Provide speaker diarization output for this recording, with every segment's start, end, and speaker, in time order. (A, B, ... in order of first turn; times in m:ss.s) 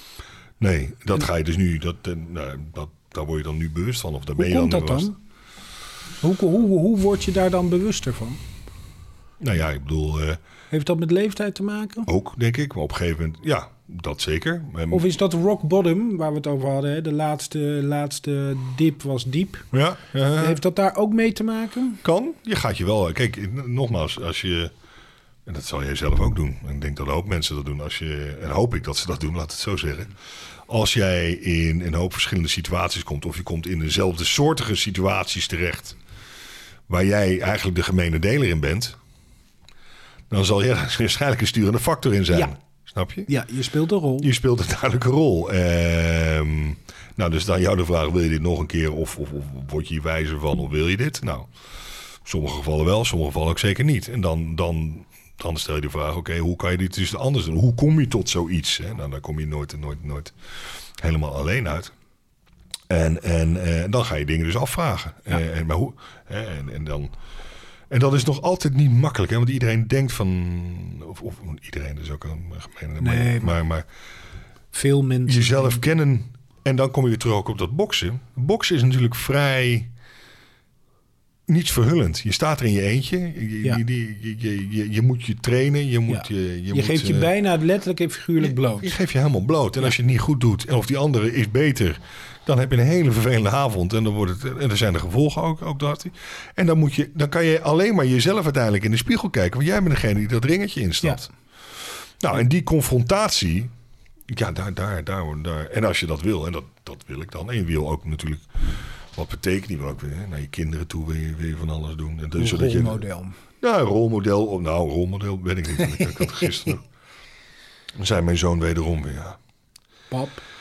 0:00.6-0:05.1 A
0:04.4-0:05.2 B
0:06.2-0:08.4 B
0:09.4-0:10.4 A
0:10.7-0:12.1 B
0:12.0-0:15.0 A
0:14.9-0:19.7 B
0:19.7-0:20.6 A
0:20.4-0:22.0 B
0:22.0-0:24.7 A
0:25.4-0:30.1 A
0:30.7-0:36.0 A
0:36.9-0:39.0 A
0:40.3-0:43.3 A
0:43.3-0:44.3 B
0:44.2-0:51.5 A
0:52.2-1:00.3 A
1:01.0-1:01.9 A
1:02.9-1:07.1 A
1:07.9-1:13.9 A
1:13.0-1:13.5 B
1:14.7-1:15.8 B
1:15.3-1:19.9 A
1:21.5-1:27.3 A
1:26.1-1:28.9 B
1:28.4-1:41.3 A
1:42.2-1:43.7 A
1:44.3-1:53.0 A
1:52.4-1:53.4 B
1:53.6-1:56.8 A
1:56.2-1:56.4 B
1:58.0-1:59.4 A
2:00.1-2:00.4 B